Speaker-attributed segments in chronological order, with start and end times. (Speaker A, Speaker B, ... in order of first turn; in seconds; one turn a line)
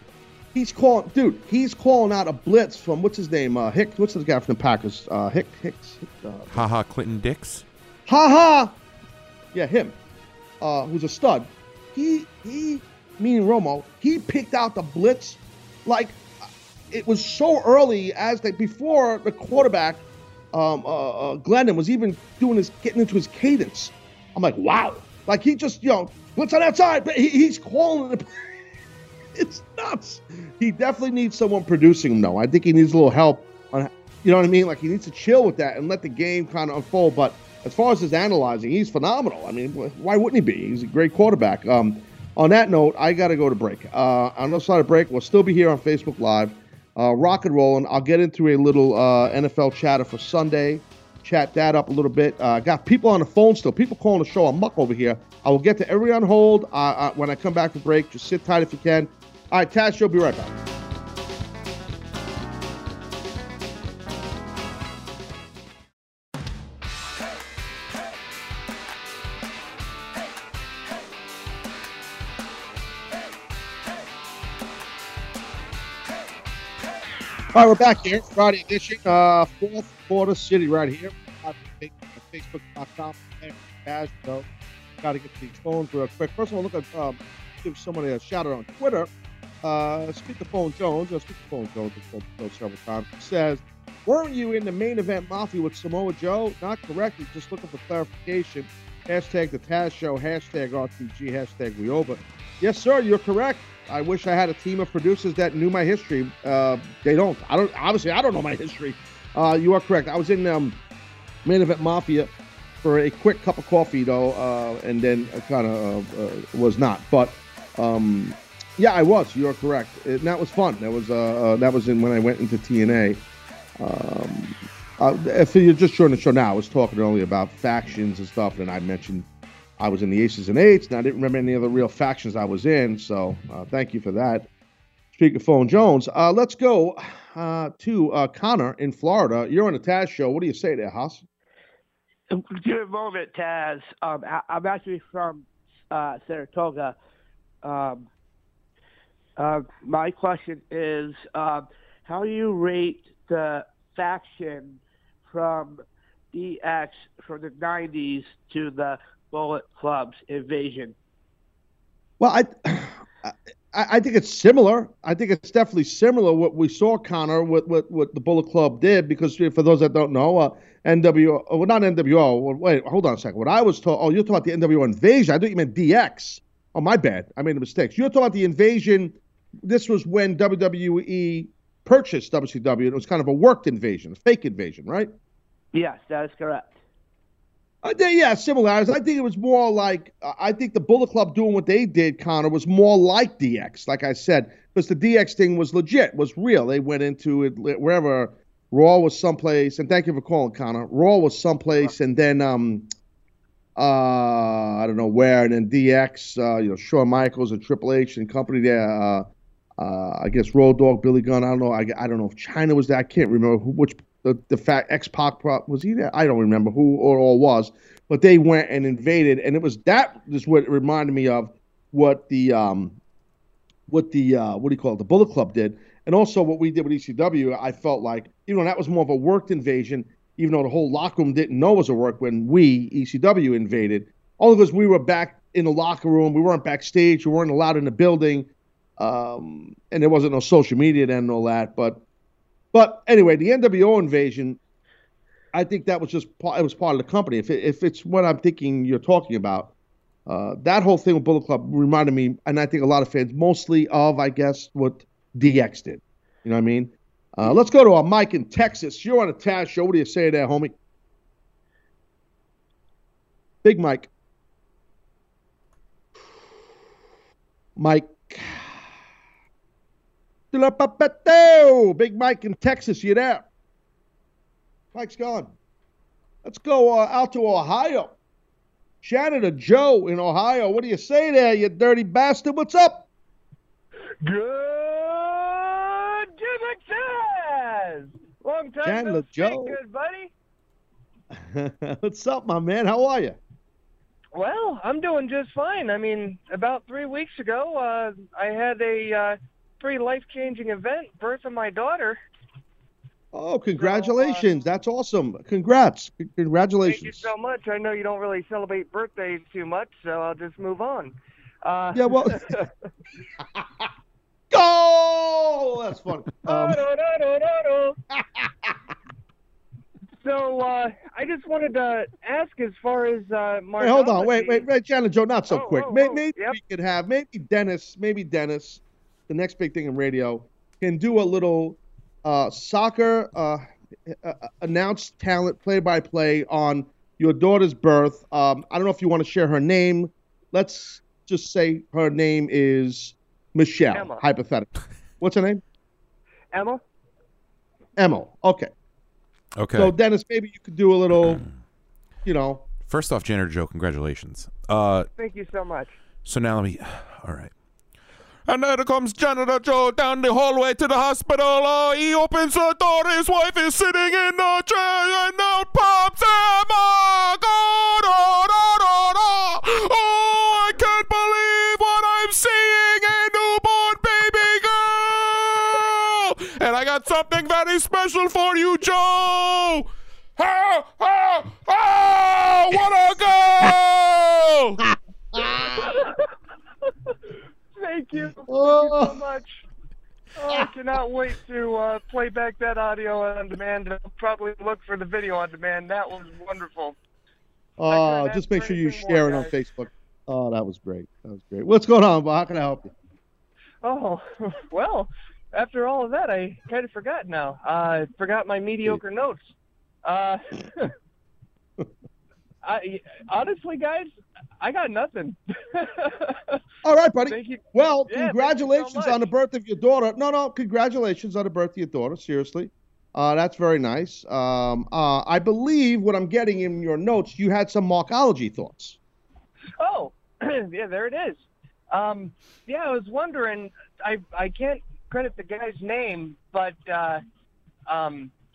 Speaker A: 0.6-6.6
Speaker B: 6.5-7.7
Speaker A: 8.1-8.7
Speaker A: 9.5-10.0
Speaker A: 10.6-16.2
Speaker A: 16.9-28.3
Speaker A: 29.4-60.5
Speaker A: 77.5-84.5
Speaker A: 85.0-89.1
Speaker A: 89.6-110.8
Speaker A: 111.5-112.3
Speaker A: 112.8-123.2
Speaker A: 123.8-129.3
Speaker A: 129.8-134.5
Speaker A: 135.1-141.2
Speaker C: 142.3-147.0
Speaker C: 147.6-148.1
Speaker C: 149.4-161.0
Speaker A: 162.2-185.1
Speaker C: 185.7-186.8
Speaker A: 187.8-202.9
Speaker A: 203.8-209.3
Speaker A: 209.8-223.0
Speaker A: 223.9-242.0
Speaker A: 242.7-244.6
Speaker A: 245.5-249.7
Speaker A: 250.3-260.8
Speaker A: 263.6-264.1
Speaker A: 267.8-268.8
Speaker A: 270.5-273.4
Speaker A: 274.9-275.5
Speaker A: 276.4-278.1
Speaker A: 279.0-283.1
Speaker D: 284.2-290.3
Speaker A: 288.9-289.8
Speaker A: 291.3-293.4
Speaker D: 294.4-302.2
Speaker A: 303.3-307.3
Speaker D: 303.8-304.6
Speaker D: 306.9-312.7
Speaker A: 311.9-312.6
Speaker A: 314.5-316.8
Speaker D: 316.5-318.0
Speaker A: 318.1-318.8
Speaker D: 320.2-324.6
Speaker A: 323.8-345.6
Speaker D: 325.5-326.6
Speaker D: 343.9-344.2
Speaker D: 346.5-346.8
Speaker A: 348.0-348.7
Speaker B: 349.6-349.9
Speaker A: 349.8-351.4
Speaker B: 351.2-351.5
Speaker A: 352.2-352.6
Speaker B: 352.9-355.1
Speaker D: 355.2-355.9
Speaker B: 356.2-357.5
Speaker B: 358.5-384.8
Speaker A: 384.8-385.9
Speaker D: 385.5-386.3
Speaker D: 387.8-389.6
Speaker A: 388.5-389.2
Speaker D: 390.4-397.0
Speaker A: 397.8-402.9
Speaker D: 397.9-399.5
Speaker D: 403.8-409.4
Speaker D: 410.1-410.9
Speaker D: 412.6-416.6
Speaker A: 416.8-429.0
Speaker D: 417.3-419.3
Speaker D: 429.8-437.2
Speaker D: 437.9-438.3